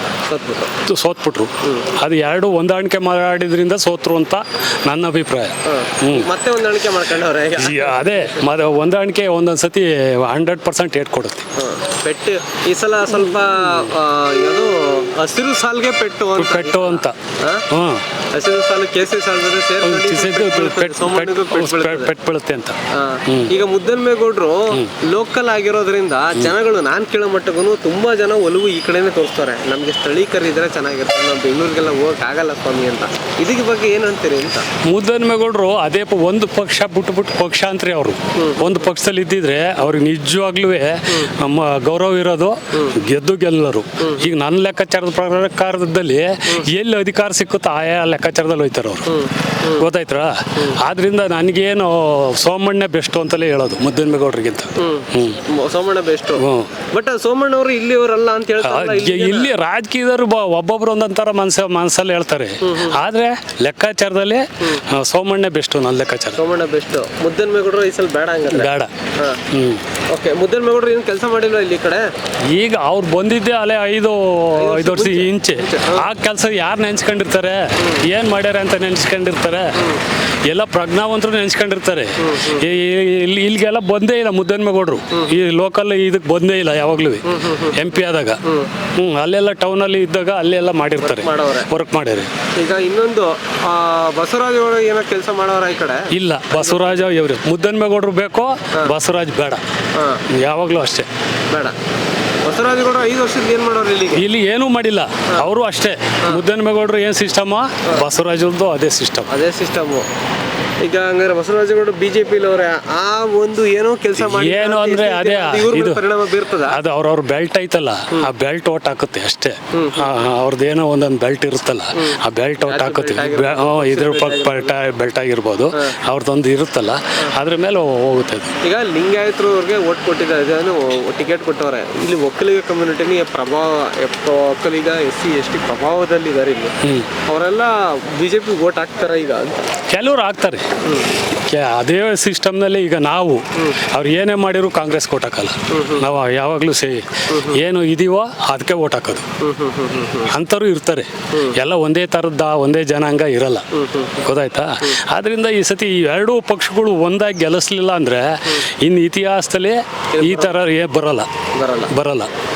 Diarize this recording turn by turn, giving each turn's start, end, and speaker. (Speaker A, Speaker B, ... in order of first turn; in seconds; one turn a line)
Speaker A: 0.3-0.8
Speaker B: 0.8-6.3
Speaker A: 1.6-1.9
Speaker A: 5.6-8.3
Speaker B: 7.6-11.5
Speaker A: 11.6-17.6
Speaker B: 16.4-17.1
Speaker B: 17.7-18.0
Speaker A: 18.3-22.1
Speaker B: 19.8-23.5
Speaker A: 22.9-34.7
Speaker B: 34.8-55.4
Speaker A: 38.3-38.8
Speaker A: 44.0-44.3
Speaker A: 49.0-49.9
Speaker A: 54.8-59.5
Speaker B: 56.4-56.7
Speaker B: 58.6-66.4
Speaker A: 62.6-63.0
Speaker A: 66.3-69.4
Speaker B: 68.5-68.9
Speaker B: 69.5-69.8
Speaker A: 70.1-72.1
Speaker B: 72.5-88.4
Speaker A: 74.5-76.1
Speaker A: 82.2-82.7
Speaker A: 85.1-85.4
Speaker A: 87.2-88.7
Speaker B: 88.9-92.3
Speaker A: 91.0-91.7
Speaker A: 92.5-97.0
Speaker B: 96.1-99.6
Speaker A: 99.9-100.2
Speaker B: 100.3-101.1
Speaker A: 101.5-101.8
Speaker A: 102.4-104.3
Speaker B: 104.1-109.3
Speaker A: 109.3-110.0
Speaker A: 110.8-116.8
Speaker B: 114.2-116.0
Speaker B: 116.7-128.6
Speaker A: 119.7-120.1
Speaker A: 122.0-124.8
Speaker A: 128.6-139.6
Speaker B: 136.8-137.1
Speaker B: 139.9-140.7
Speaker A: 140.8-141.1
Speaker B: 141.4-149.2
Speaker A: 145.7-146.1
Speaker A: 147.3-147.6
Speaker A: 149.4-150.3
Speaker B: 150.3-153.7
Speaker A: 153.7-154.3
Speaker B: 154.2-161.3
Speaker A: 160.1-160.6
Speaker A: 161.5-161.9
Speaker B: 161.9-162.3